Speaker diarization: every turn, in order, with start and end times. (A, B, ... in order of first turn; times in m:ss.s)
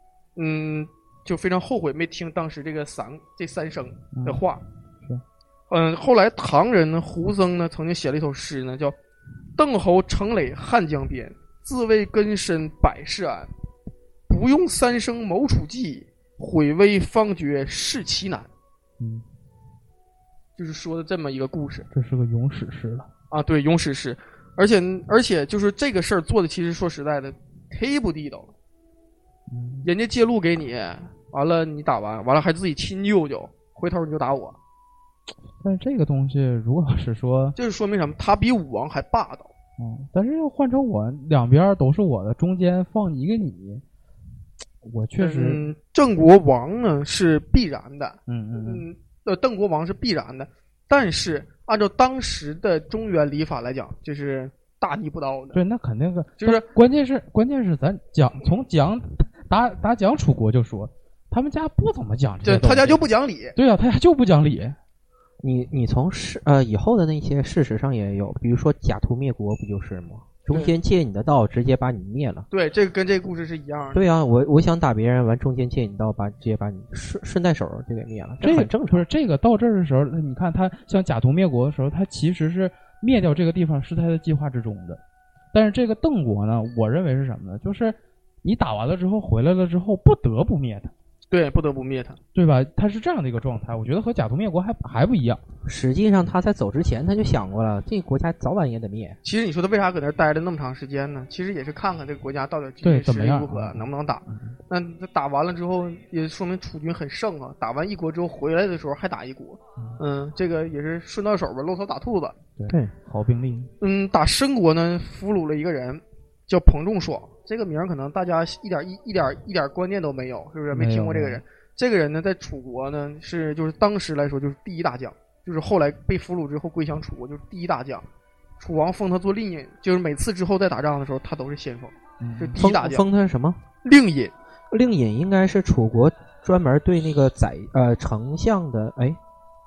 0:00.4-0:04.6 A
0:04.1-0:04.4 B
0:05.7-0:08.9 A
0:09.6-0:13.5 A
0:14.3-0:18.5 A
0:19.0-0:19.2 B
0:20.6-0:21.9 A
0:21.9-0:23.1 B
0:23.3-0:28.5 A
0:29.5-0:29.9 B
0:29.8-0:34.6 A
0:35.6-0:37.6 B
0:37.6-0:39.5 A
0:39.8-0:43.8 B
0:44.8-0:45.6 B
0:45.2-0:55.6 A
0:48.3-0:48.8 B
0:55.5-1:03.0 B
0:56.4-0:56.7 A
1:02.4-1:03.5 A
1:03.6-1:04.8 B
1:05.4-1:12.5 C
1:12.5-1:14.0 A
1:13.9-1:19.0 C
1:18.4-1:25.0 B
1:25.5-1:30.9 B
1:31.3-1:32.2 A
1:32.3-1:35.4 B
1:35.6-1:39.2 C
1:39.2-1:52.4 A
1:42.8-1:44.5 B
1:52.6-1:53.7 B
1:52.7-1:52.9 C
1:53.8-2:08.0 A
2:00.7-2:01.4 B
2:08.6-2:13.0 A
2:12.2-2:12.6 B
2:12.6-2:13.6 C
2:13.8-2:14.3 A
2:14.7-2:19.2 C